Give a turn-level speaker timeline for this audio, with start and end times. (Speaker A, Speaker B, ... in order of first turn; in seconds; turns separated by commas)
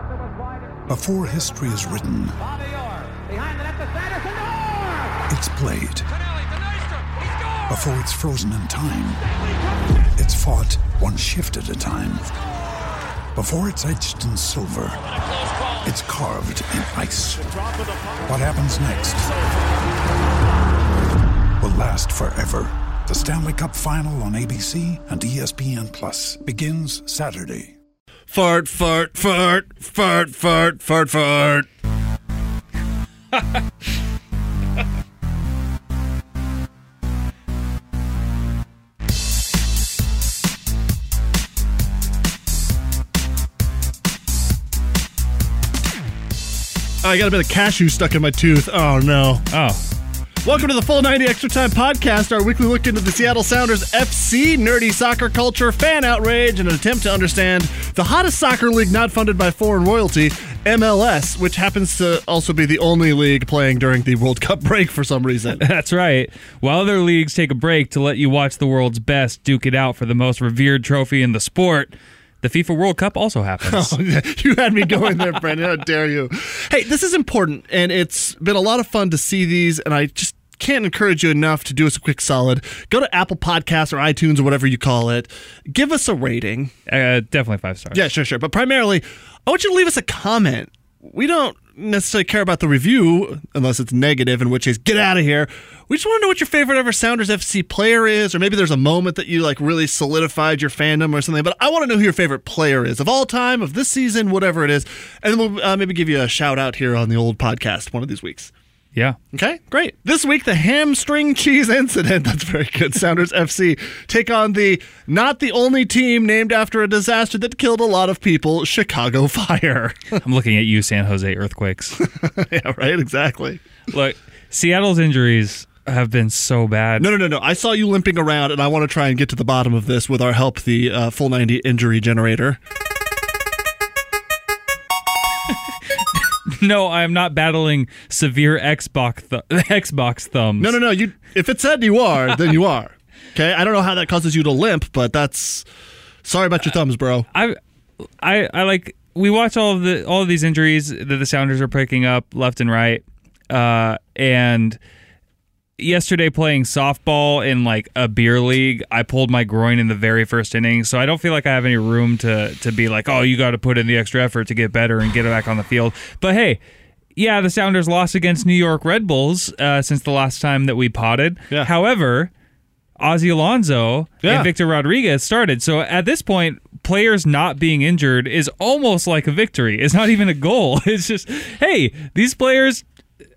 Speaker A: 0.9-2.4, Speaker A: 5.3-6.1, Speaker A: 7.7-9.2, Speaker A: 10.2-12.3, Speaker A: 13.3-15.0, Speaker A: 15.8-17.5, Speaker A: 18.2-19.3, Speaker A: 21.6-27.8, Speaker B: 28.3-31.7, Speaker B: 47.0-49.5, Speaker C: 49.5-49.8, Speaker B: 50.4-65.6, Speaker C: 65.6-73.9, Speaker B: 73.7-86.7, Speaker C: 86.9-88.1, Speaker B: 87.9-108.5, Speaker B: 109.3-120.2, Speaker C: 120.2-122.0, Speaker B: 122.0-123.6, Speaker C: 123.9-127.1, Speaker B: 127.0-132.6, Speaker C: 136.5-140.8, Speaker B: 140.6-145.7, Speaker B: 146.2-147.3, Speaker C: 147.3-147.6, Speaker C: 148.2-154.8, Speaker C: 155.8-166.6, Speaker C: 167.2-172.3, Speaker C: 173.0-182.8, Speaker B: 174.2-174.5